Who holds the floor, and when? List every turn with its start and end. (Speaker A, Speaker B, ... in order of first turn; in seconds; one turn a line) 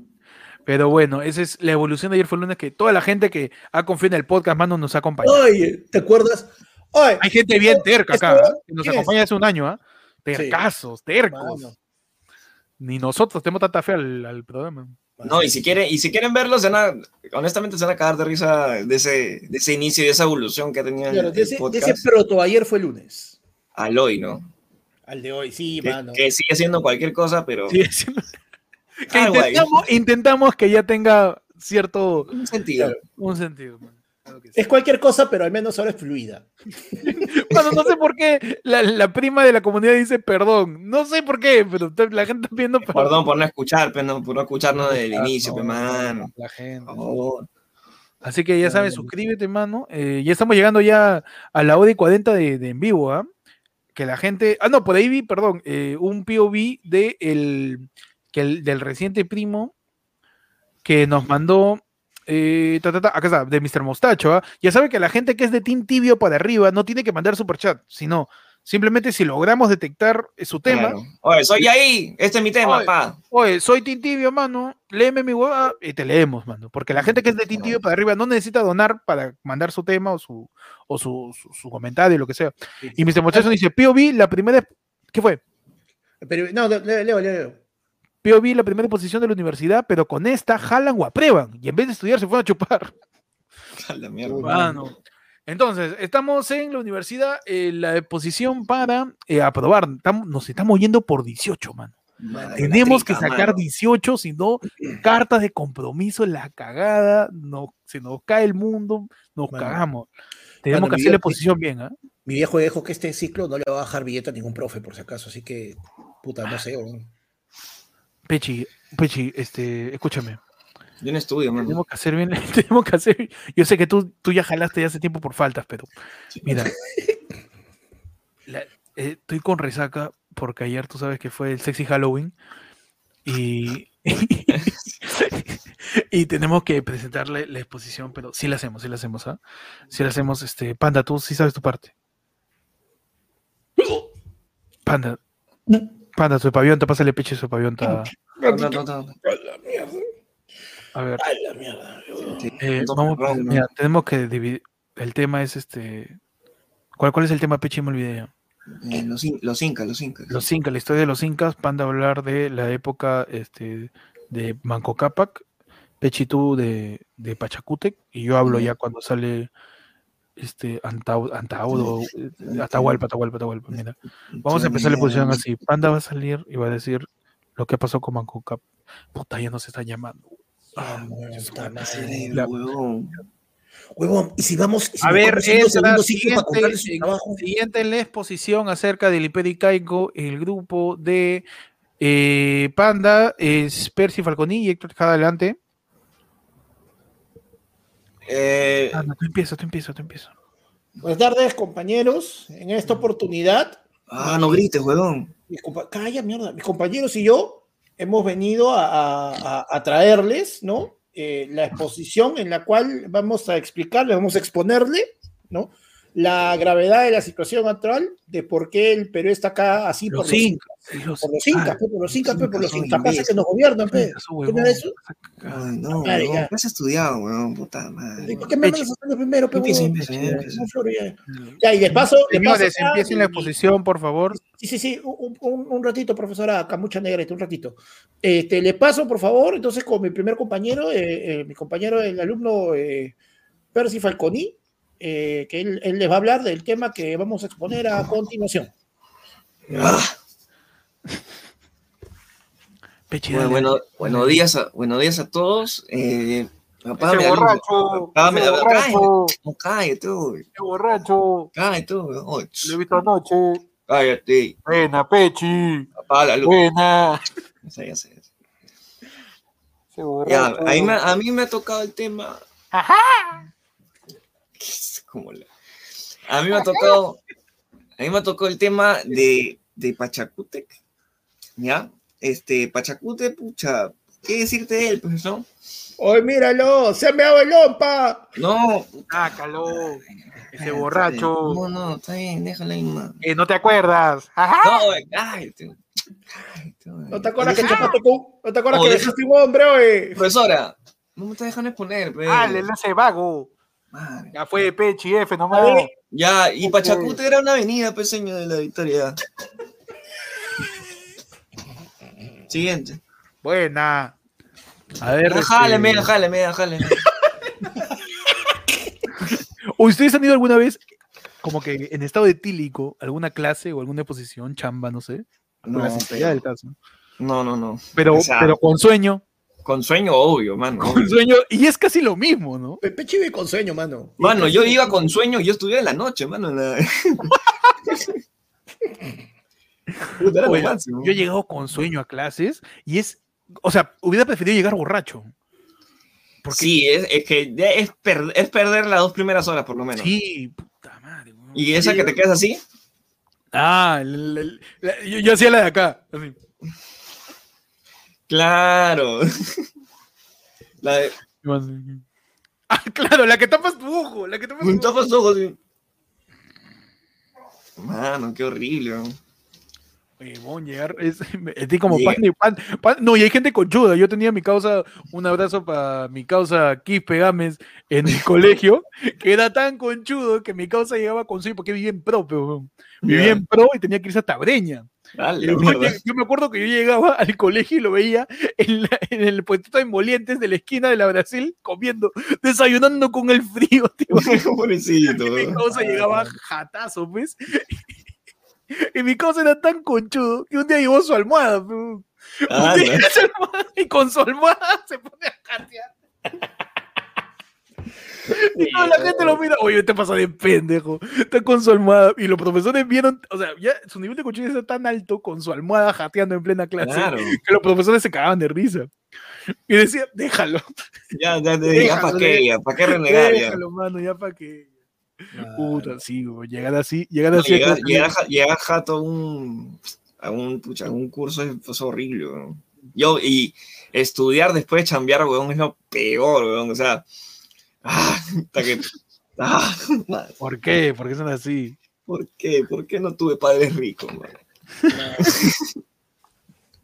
Speaker A: 0.7-5.4
Speaker B: 5.2-9.1
Speaker A: 7.2-11.7
Speaker B: 10.3-10.6
Speaker B: 11.3-11.8
Speaker A: 12.8-15.0
Speaker B: 15.2-15.6
Speaker C: 15.2-22.0
Speaker B: 21.1-23.4
Speaker C: 23.8-24.5
Speaker B: 25.1-26.2
Speaker C: 25.8-27.8
Speaker A: 27.7-28.3
Speaker A: 29.1-32.3
Speaker C: 29.1-29.7
Speaker C: 32.3-33.0
Speaker A: 33.2-34.6
Speaker B: 34.6-37.3
Speaker A: 37.0-43.2
Speaker C: 42.9-46.3
Speaker A: 44.8-47.0
Speaker C: 46.9-47.5
Speaker A: 48.2-53.3
Speaker B: 48.6-49.1
Speaker A: 54.0-59.7
Speaker A: 60.9-71.0
Speaker C: 70.7-73.2
Speaker A: 72.6-85.4
Speaker B: 82.8-83.5
Speaker B: 86.2-87.6
Speaker A: 88.2-92.9
Speaker C: 93.8-94.7
Speaker B: 94.2-94.8
Speaker A: 94.4-95.0
Speaker A: 95.5-102.0
Speaker C: 102.2-103.6
Speaker B: 102.3-102.8
Speaker A: 102.6-110.1
Speaker B: 109.5-109.8
Speaker A: 110.6-111.9
Speaker B: 110.7-111.4
Speaker B: 112.3-117.1
Speaker A: 118.3-120.4
Speaker C: 121.0-121.8
Speaker A: 121.6-125.9
Speaker A: 126.5-126.7
Speaker A: 128.5-132.3
Speaker A: 133.2-139.4
Speaker A: 139.9-141.9
Speaker A: 144.9-145.2
Speaker A: 146.2-148.1
Speaker B: 147.8-150.0
Speaker C: 148.4-149.2
Speaker A: 150.9-151.2
Speaker B: 151.2-152.5
Speaker C: 152.4-153.7
Speaker A: 152.6-156.2
Speaker A: 157.0-158.3
Speaker C: 158.7-160.4
Speaker A: 160.3-165.4
Speaker A: 166.0-169.5
Speaker A: 170.4-178.6
Speaker C: 171.7-173.0
Speaker C: 174.3-175.4
Speaker B: 174.9-175.2
Speaker A: 179.1-181.7
Speaker B: 180.8-182.3
Speaker C: 181.8-183.1
Speaker B: 184.0-187.4
Speaker A: 185.0-191.4
Speaker A: 192.0-195.6
Speaker C: 198.3-199.1
Speaker A: 198.9-200.3
Speaker B: 201.0-204.7
Speaker C: 204.1-205.3
Speaker B: 205.5-220.5
Speaker A: 220.1-222.5
Speaker B: 221.2-224.9
Speaker C: 222.3-223.3
Speaker A: 223.9-225.7
Speaker C: 225.4-228.5
Speaker B: 226.0-226.5
Speaker B: 228.2-233.5
Speaker A: 228.3-228.8
Speaker C: 229.5-230.7
Speaker A: 229.8-230.4
Speaker A: 231.5-234.4
Speaker B: 234.4-243.2
Speaker B: 243.7-248.7
Speaker C: 249.7-250.1
Speaker A: 253.1-254.4
Speaker C: 253.3-260.5
Speaker A: 257.0-259.3
Speaker A: 260.6-261.5
Speaker C: 261.5-263.1
Speaker A: 262.6-263.6
Speaker C: 263.9-264.6
Speaker A: 264.7-265.9
Speaker C: 266.0-266.6
Speaker A: 266.4-267.3
Speaker C: 267.7-268.2
Speaker A: 269.9-271.0
Speaker C: 270.3-272.4
Speaker A: 272.7-273.4
Speaker C: 274.6-275.5
Speaker C: 276.3-277.2
Speaker A: 276.5-276.9
Speaker C: 278.0-280.7
Speaker C: 281.6-285.5
Speaker B: 286.0-288.2
Speaker C: 288.4-293.2
Speaker A: 289.1-290.0
Speaker A: 290.5-291.6
Speaker A: 293.2-294.9
Speaker C: 294.6-295.8
Speaker C: 296.4-297.9
Speaker B: 297.1-300.2
Speaker A: 297.6-297.9
Speaker C: 298.7-299.1
Speaker C: 300.1-302.7
Speaker A: 302.3-303.5
Speaker C: 303.9-304.3
Speaker A: 304.3-305.9
Speaker B: 305.5-305.9
Speaker C: 306.1-309.2
Speaker A: 306.6-307.2
Speaker C: 312.5-313.0
Speaker A: 313.4-314.1
Speaker A: 315.0-316.1
Speaker C: 315.3-317.1
Speaker A: 319.3-320.8
Speaker A: 321.4-326.8
Speaker C: 325.6-326.4
Speaker C: 327.2-328.6
Speaker A: 327.9-329.2
Speaker C: 329.6-331.1
Speaker A: 330.8-332.8
Speaker B: 332.8-335.1
Speaker C: 334.2-337.3
Speaker C: 340.1-341.2
Speaker A: 340.4-345.3
Speaker A: 346.4-346.8
Speaker C: 346.5-350.1
Speaker A: 350.0-352.2
Speaker C: 351.6-352.6
Speaker A: 353.5-356.4
Speaker C: 358.3-359.7
Speaker C: 360.8-361.2
Speaker A: 361.4-362.0
Speaker A: 362.7-365.0
Speaker C: 364.6-365.6
Speaker C: 367.8-369.2
Speaker A: 370.2-384.9
Speaker C: 371.9-372.2
Speaker C: 383.0-383.4
Speaker C: 385.1-386.0
Speaker A: 385.4-394.4
Speaker C: 394.1-396.1
Speaker A: 395.2-397.8
Speaker A: 398.7-405.9
Speaker C: 402.5-403.1
Speaker A: 408.3-418.9
Speaker B: 408.5-409.4
Speaker C: 416.8-417.4
Speaker A: 419.7-420.7
Speaker C: 421.1-423.6
Speaker A: 421.7-424.7
Speaker B: 421.8-422.1
Speaker B: 425.3-426.0
Speaker A: 425.5-428.1
Speaker C: 427.3-437.1
Speaker C: 437.8-440.4
Speaker A: 440.4-441.8
Speaker C: 442.1-444.4
Speaker B: 444.9-445.4
Speaker C: 445.2-445.7